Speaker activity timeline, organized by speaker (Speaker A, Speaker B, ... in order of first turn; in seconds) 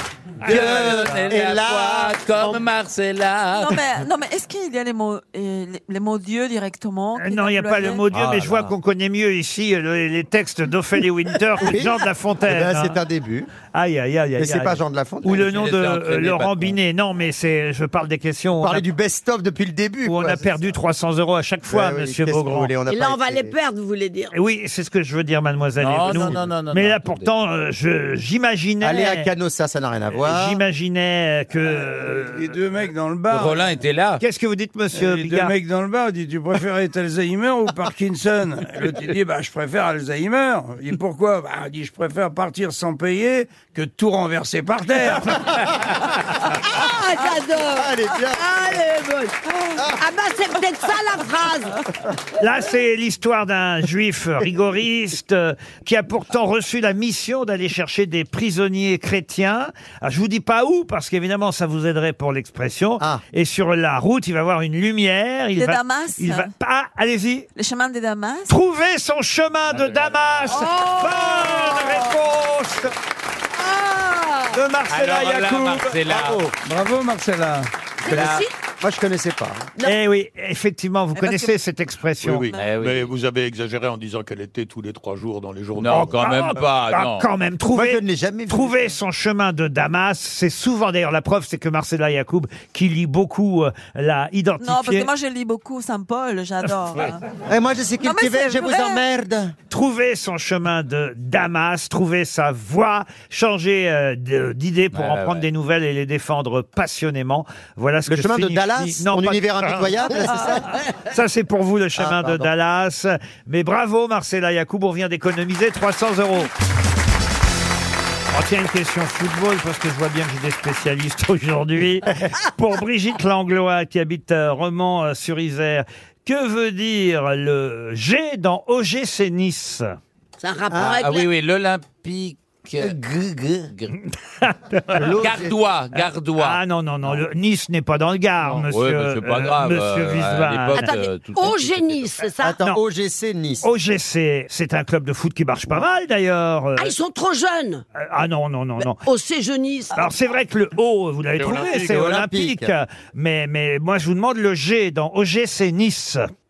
Speaker A: 0.4-2.6, 11.6-13.5, 14.4-15.5, 18.6-20.4, 21.7-23.5, 28.8-30.6, 47.5-48.8, 76.1-76.5, 78.1-79.7, 87.7-88.8, 97.5-99.5, 108.1-110.8, 112.0-112.5, 130.7-131.0, 134.9-135.5, 142.4-143.7, 151.5-152.7
Speaker B: 0.4-3.8, 15.3-16.8, 25.8-27.3, 33.3-34.2, 69.8-70.5, 74.9-76.5, 78.1-78.4, 82.5-83.1, 85.8-87.2, 104.9-105.4, 130.7-133.9, 135.0-137.2, 138.5-142.2
Speaker C: 3.5-8.1, 65.6-66.5, 67.5-68.5, 81.1-81.6, 94.6-97.2, 98.0-99.0
Speaker D: 7.2-12.9, 13.6-18.8, 20.1-22.7, 24.3-29.3, 30.1-32.5, 34.2-35.5, 52.4-67.5, 68.5-72.9, 74.5-76.0, 79.8-82.5, 86.2-95.1, 99.7-116.5, 118.3-129.9, 134.4-135.1, 136.4-140.9, 143.6-146.9, 147.9-149.0, 149.9-156.2
Speaker E: 22.9-24.3, 46.6-51.8, 70.5-72.1, 73.5-74.6, 78.0-78.5, 130.4-131.3, 140.7-142.6, 146.8-147.8, 148.8-150.1
Speaker F: 31.8-33.7, 34.9-45.4, 76.6-77.7
Speaker G: 82.2-86.3, 151.4-152.0